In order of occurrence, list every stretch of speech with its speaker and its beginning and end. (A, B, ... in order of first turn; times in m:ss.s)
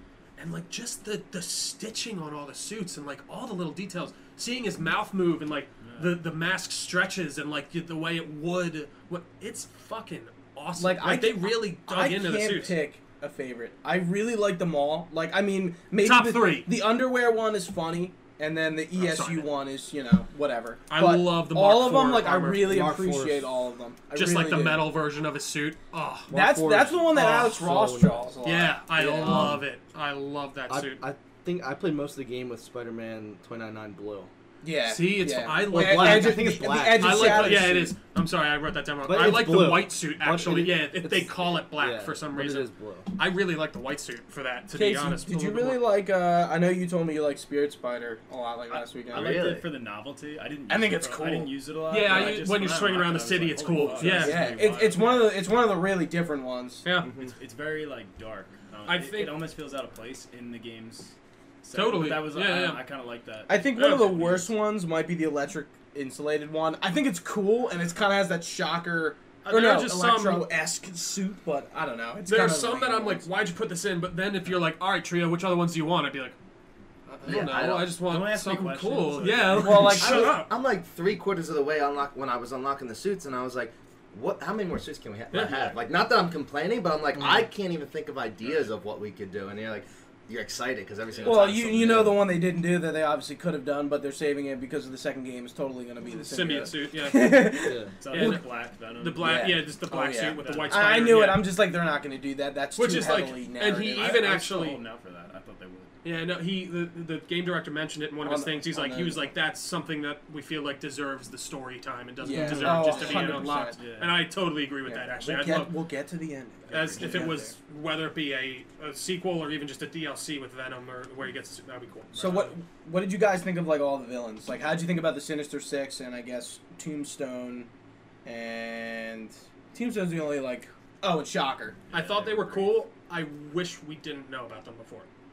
0:00.4-0:12.7 A
0:05.8-0:06.2 B
0:10.8-0:24.9 C
0:16.0-0:16.7 A
0:19.0-0:19.5 A
0:20.9-0:22.8 A
0:22.6-0:23.5 D
0:24.1-0:26.3 A
0:26.3-0:28.3 D
0:26.3-0:28.8 C
0:27.1-0:27.5 A
0:28.4-0:31.0 A
0:29.0-0:29.6 D
0:30.7-0:34.3 D
0:34.6-0:37.9 C
0:34.9-0:45.8 A
0:35.5-0:37.9 D
0:39.0-0:43.1 D
0:44.7-0:49.6 C
0:49.1-0:49.8 E
0:49.1-0:55.4 B
0:50.7-0:52.4 C
0:51.9-0:54.6 A
0:54.1-0:56.9 C
0:56.8-0:57.1 A
0:57.0-0:57.3 E
0:57.2-1:04.5 B
0:58.9-0:59.4 A
1:01.7-1:02.8 A
1:03.5-1:13.3 C
1:03.8-1:04.2 A
1:09.4-1:10.5 A
1:12.3-1:16.4 A
1:17.2-1:20.5 A
1:17.3-1:18.0 E
1:18.0-1:20.1 B
1:19.5-1:20.4 C
1:20.0-1:32.2 E
1:25.3-1:25.7 A
1:27.2-1:27.5 D
1:28.4-1:28.7 B
1:31.1-1:31.5 B
1:31.2-1:38.4 C
1:36.0-1:37.6 A
1:37.6-1:37.9 D
1:38.0-1:39.6 B
1:38.1-1:41.5 A
1:39.2-1:44.8 C
1:40.4-1:41.4 B
1:42.8-1:44.8 A
1:43.9-1:45.9 B
1:46.0-1:55.8 A
1:48.2-1:49.3 C
1:52.2-1:53.8 C
1:52.4-1:52.8 D
1:52.6-1:54.2 B
1:54.9-1:57.5 C
1:56.7-2:02.5 A
1:56.8-1:57.3 B
2:02.2-2:07.7 C
2:02.2-2:02.4 B
2:08.2-2:11.8 C
2:11.9-2:12.7 B
2:11.9-2:15.1 A